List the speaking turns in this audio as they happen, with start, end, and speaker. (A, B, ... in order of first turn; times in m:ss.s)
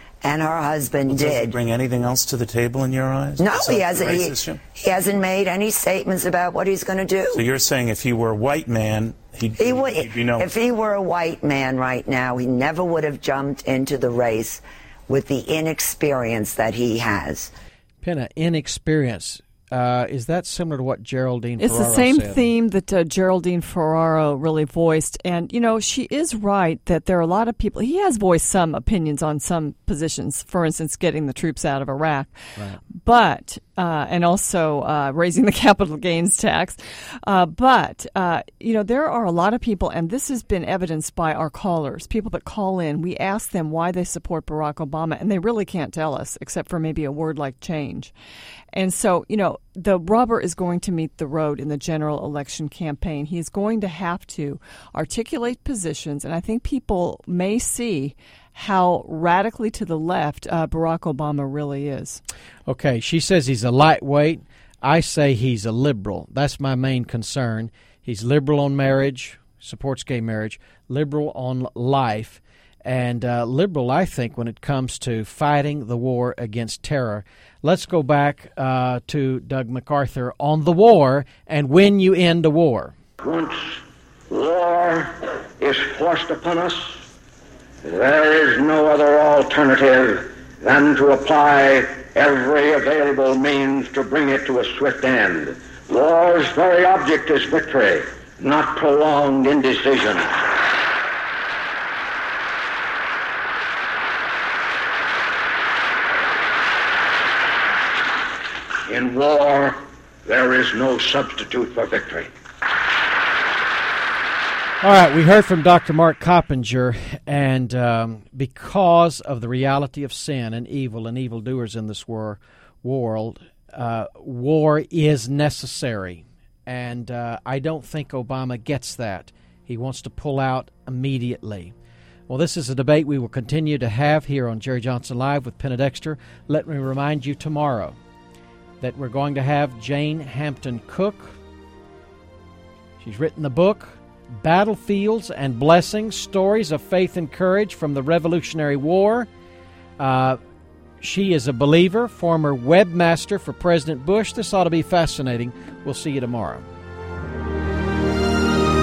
0:00.2-0:01.6 A
0:01.0-0:04.6 B
0:03.4-0:07.4 A
0:07.3-0:10.5 B
0:09.6-0:17.5 A
0:18.0-0:22.5 C
0:21.6-0:32.3 D
0:32.9-0:48.1 D
0:48.7-1:02.2 D
1:02.6-1:22.9 C
1:23.2-1:27.0 E
1:27.8-1:40.5 E
1:48.9-1:52.3 E
1:54.8-2:11.7 C
2:12.3-2:18.0 C
2:18.8-2:21.4 C
2:23.0-2:29.3 C
2:30.0-2:30.4 C
2:31.0-2:36.7 C